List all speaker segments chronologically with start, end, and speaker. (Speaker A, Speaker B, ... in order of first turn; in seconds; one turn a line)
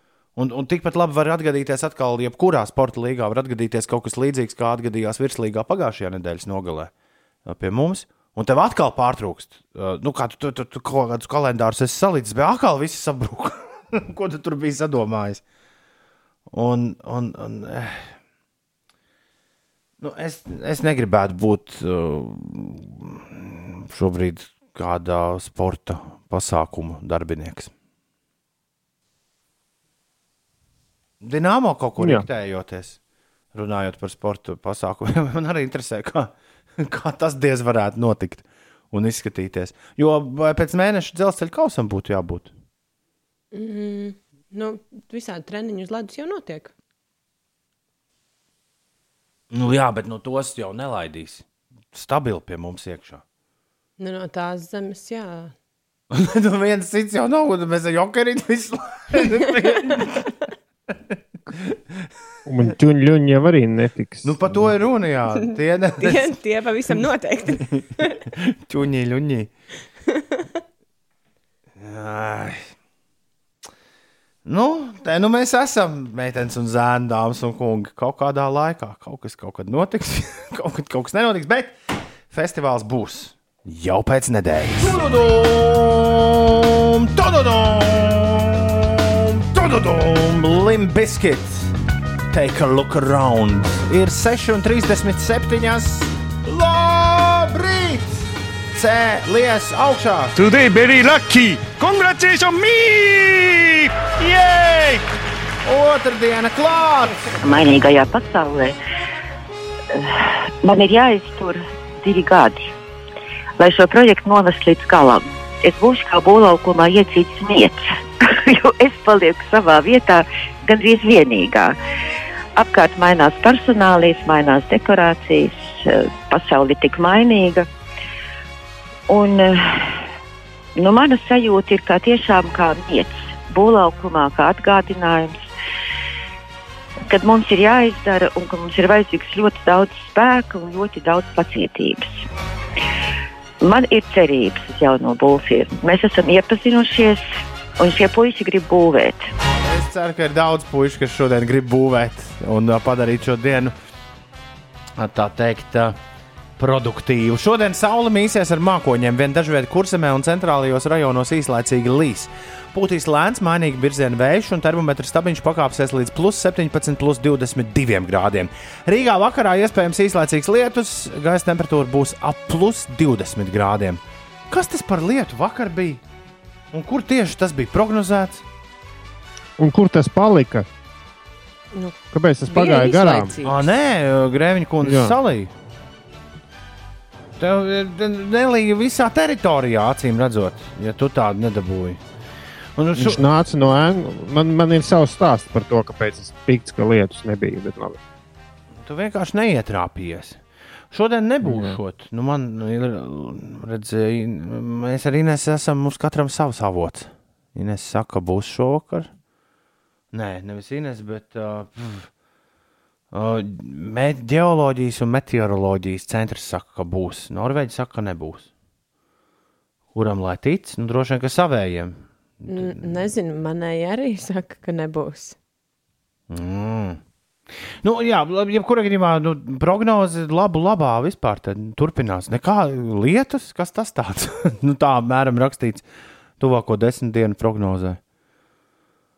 Speaker A: 0.4-6.9
Speaker A: 7.5-15.4
Speaker A: 16.5-18.1
Speaker A: 20.0-27.7
Speaker A: 31.2-33.0
Speaker B: 32.0-32.2
Speaker A: 33.5-42.5
Speaker C: 43.5-46.7
Speaker A: 49.5-53.2
Speaker C: 54.0-55.5
Speaker A: 56.1-60.3
Speaker B: 62.5-64.7
Speaker A: 64.2-66.4
Speaker C: 66.0-68.2
Speaker A: 67.8-69.5
Speaker C: 70.1-70.5
Speaker A: 71.8-72.7
Speaker A: 74.5-81.8
Speaker A: 82.3-91.8
Speaker A: 92.3-100.4
Speaker D: 100.4-105.1
Speaker A: 105.7-107.4
Speaker E: 107.4-108.8
Speaker E: 109.9-112.7
Speaker E: 113.6-121.8
Speaker E: 122.6-127.7
Speaker E: 129.1-130.0
Speaker E: 130.8-135.4
Speaker E: 137.1-142.1
Speaker E: 143.6-147.2
Speaker E: 147.8-149.2
Speaker A: 149.6-153.7
Speaker A: 155.0-156.0
Speaker A: 156.6-176.0
Speaker A: 176.7-178.4
Speaker B: 179.6-180.7
Speaker C: 181.7-182.0
Speaker B: 182.1-183.3
Speaker C: 182.5-183.7
Speaker A: 183.4-185.5
Speaker B: 184.8-185.2
Speaker A: 187.4-192.0
Speaker A: 192.8-193.2
Speaker B: 192.9-198.0
Speaker A: 198.8-200.4
Speaker A: 200.9-209.1
Speaker B: 201.4-201.8
Speaker A: 210.1-212.1
Speaker A: 213.1-218.5
Speaker A: 219.9-223.1
Speaker C: 222.5-225.4
Speaker A: 226.3-227.0
Speaker A: 227.8-235.8
Speaker A: 236.4-238.0